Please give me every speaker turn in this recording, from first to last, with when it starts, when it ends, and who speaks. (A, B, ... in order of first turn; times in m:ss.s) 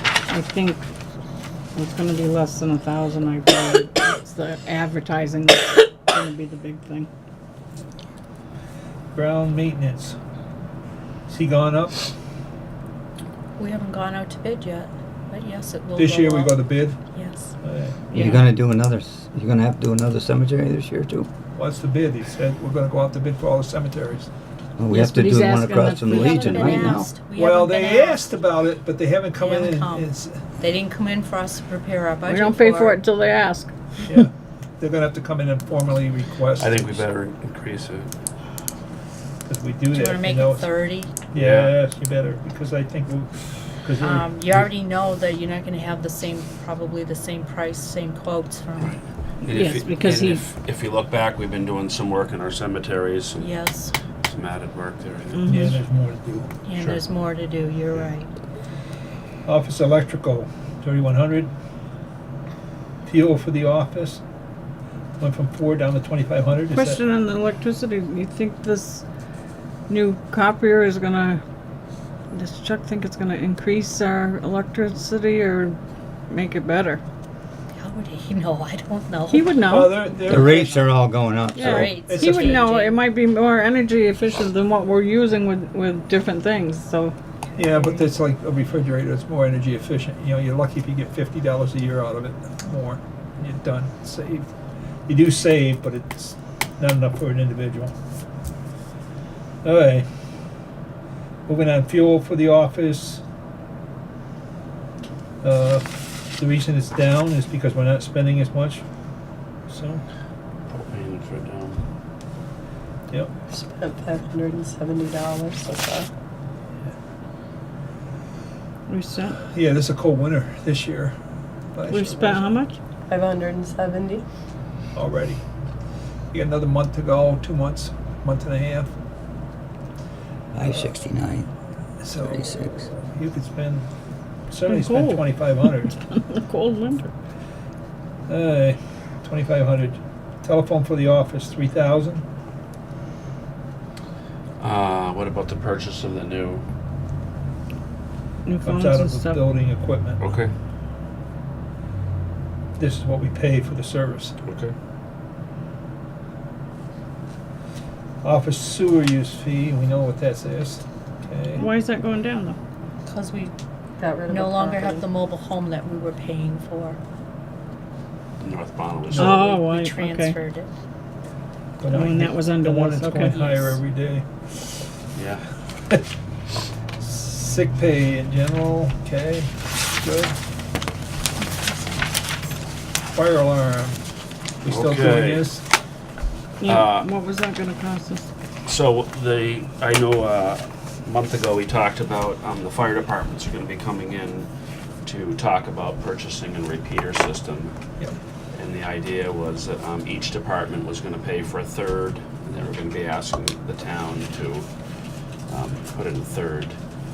0:00.3-0:00.8 A
0:01.7-0:07.1 A
0:09.1-0:10.2 B
0:11.3-0:12.1 B
0:13.6-0:17.5 C
0:16.0-0:17.0 B
0:17.6-0:17.9 B
0:18.1-0:18.5 A
0:18.1-0:21.3 D
0:21.6-0:24.3 B
0:24.8-0:27.1 D
0:24.9-0:27.0 A
0:26.1-0:28.3 C
0:27.3-0:30.5 B
0:29.3-0:33.0 C
0:32.3-0:33.7 A
0:34.1-0:37.0 B
0:36.6-0:38.1 E
0:39.4-0:44.7 B
0:39.9-0:41.2 C
0:41.3-0:41.8 E
0:44.0-0:49.0 C
0:48.8-0:53.7 E
0:49.4-0:50.4 A
0:53.4-0:53.9 C
0:54.2-0:55.6 E
0:55.4-0:55.8 A
0:55.5-0:56.5 B
0:56.6-0:58.3 C
0:56.7-0:57.2 E
0:59.4-1:01.5 B
1:03.0-1:04.2 B
1:05.2-1:07.0 B
1:06.7-1:09.0 A
1:09.9-1:11.4 A
1:12.3-1:15.8 A
1:16.3-1:17.0 A
1:17.8-1:20.8 C
1:19.3-1:20.1 A
1:19.7-1:20.7 B
1:20.3-1:22.0 D
1:21.5-1:27.1 A
1:21.6-1:22.6 B
1:21.6-1:23.0 C
1:27.6-1:34.5 B
1:27.6-1:28.1 C
1:35.1-1:37.9 B
1:39.6-1:40.0 B
1:41.5-1:43.2 B
1:45.4-1:48.8 B
1:49.7-1:50.0 B
1:50.7-1:51.8 E
1:53.5-1:56.1 F
1:58.9-1:59.4 A
1:59.5-2:01.2 B
2:01.7-2:02.5 B
2:01.9-2:02.8 A
2:03.1-2:04.2 F
2:04.9-2:05.4 B
2:06.3-2:08.9 B
2:10.5-2:11.5 D
2:10.6-2:10.9 B
2:12.0-2:13.9 B
2:12.2-2:12.9 D
2:14.5-2:15.9 B
2:14.7-2:17.1 A
2:18.3-2:22.2 B
2:24.6-2:26.6 E
2:28.4-2:29.5 A
2:28.6-2:30.2 B
2:30.2-2:30.5 E
2:32.8-2:34.4 B
2:34.4-2:34.7 E
2:38.2-2:41.6 B
2:41.5-2:42.6 A
2:43.0-2:43.5 C
2:44.0-2:45.1 F
2:44.3-2:47.0 C
2:48.4-2:49.4 E
2:49.1-2:49.5 B
2:49.1-2:50.4 A
2:49.4-2:50.7 C
2:51.8-2:54.2 B
2:51.9-2:53.7 A
2:53.2-2:53.7 C
2:55.1-2:55.4 E
2:57.0-3:00.4 B
3:03.1-3:04.0 B
3:04.6-3:05.6 B
3:04.6-3:05.5 E
3:06.6-3:08.3 A
3:06.6-3:07.1 E
3:08.6-3:14.5 E
3:15.0-3:17.7 E
3:18.5-3:24.6 E
3:25.5-3:26.8 E